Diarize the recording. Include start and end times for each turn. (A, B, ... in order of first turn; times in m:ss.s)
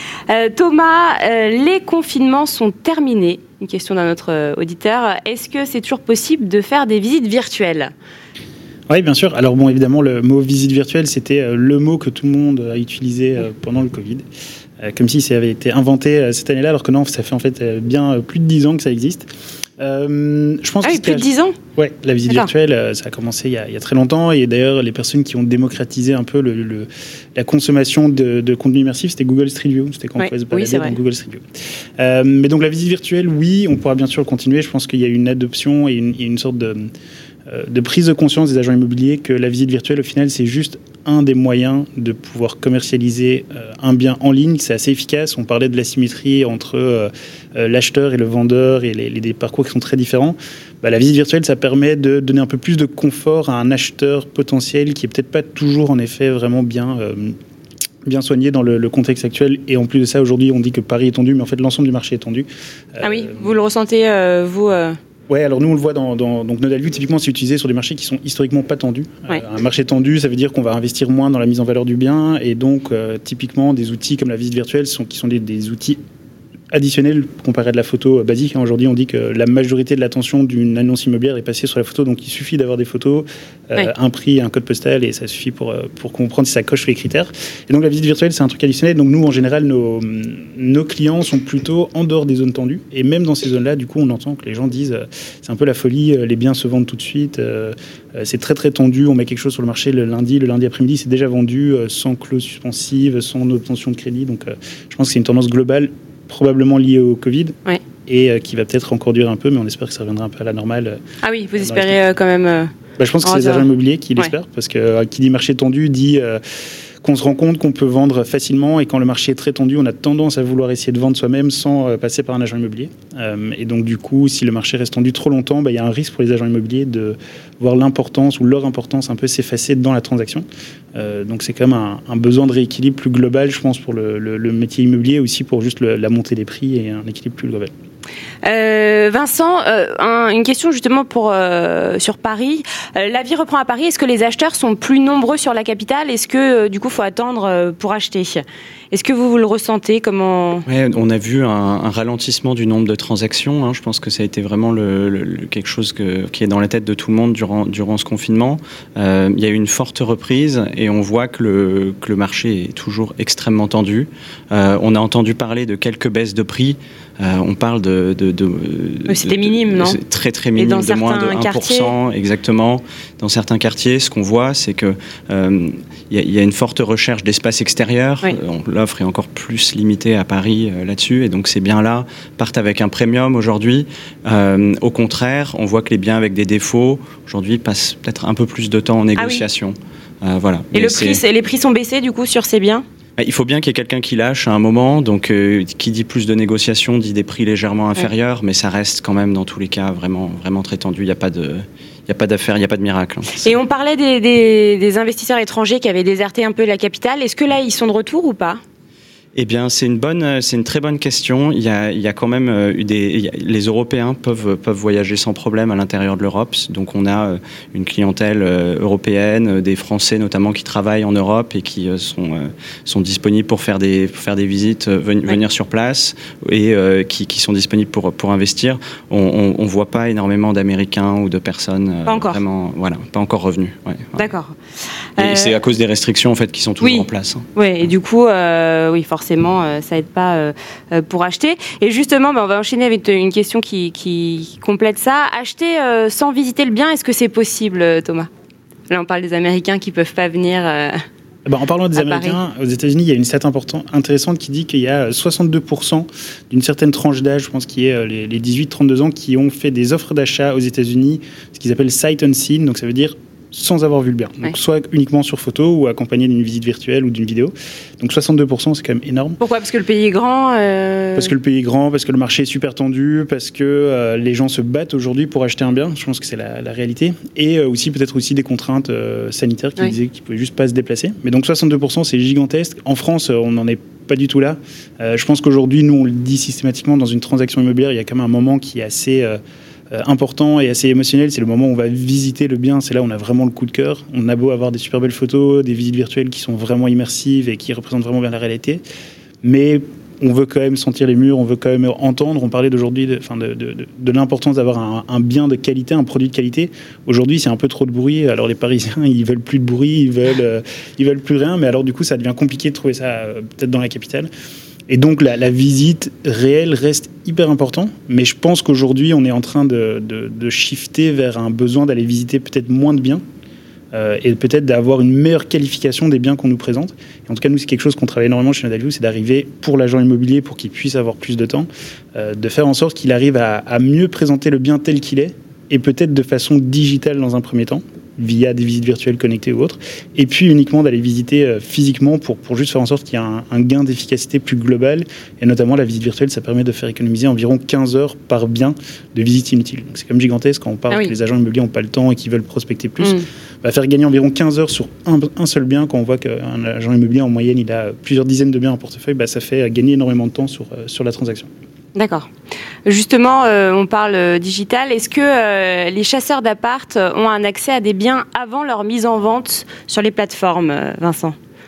0:00.3-0:07.9 A
0:08.9-0:14.2 B
0:14.8-0:19.3 B
0:19.8-0:31.5 B
0:20.8-0:21.6 A
0:30.2-0:31.0 A
0:32.0-0:36.9 B
0:37.5-0:57.4 B
0:58.0-1:03.5 B
1:03.0-1:05.0 A
1:05.3-1:16.0 B
1:16.7-1:51.0 B
1:51.2-1:52.7 A
1:51.6-1:52.0 B
1:53.0-1:56.4 B
1:53.2-1:53.7 A
1:57.0-2:17.7 B
2:18.4-2:30.6 A
2:30.7-3:11.2 C
2:49.1-2:50.0 A
2:50.6-2:51.9 A
3:09.2-3:09.4 A
3:10.7-3:12.8 A
3:13.2-3:23.5 C
3:23.4-3:28.6 A
3:29.3-3:54.2 C
3:52.1-3:52.4 A
3:54.2-3:54.5 A
3:55.2-3:55.6 A
3:55.2-3:57.5 C
3:56.8-4:08.3 A
4:08.9-4:11.0 A
4:11.5-4:29.4 B
4:12.0-4:12.4 A
4:29.4-4:31.3 A
4:31.2-4:49.4 B
4:49.9-4:58.8 B
4:59.4-5:14.3 B
5:14.9-5:23.2 B
5:23.9-6:01.5 B
5:53.0-5:53.2 A
6:02.0-6:02.3 A
6:02.9-6:11.4 A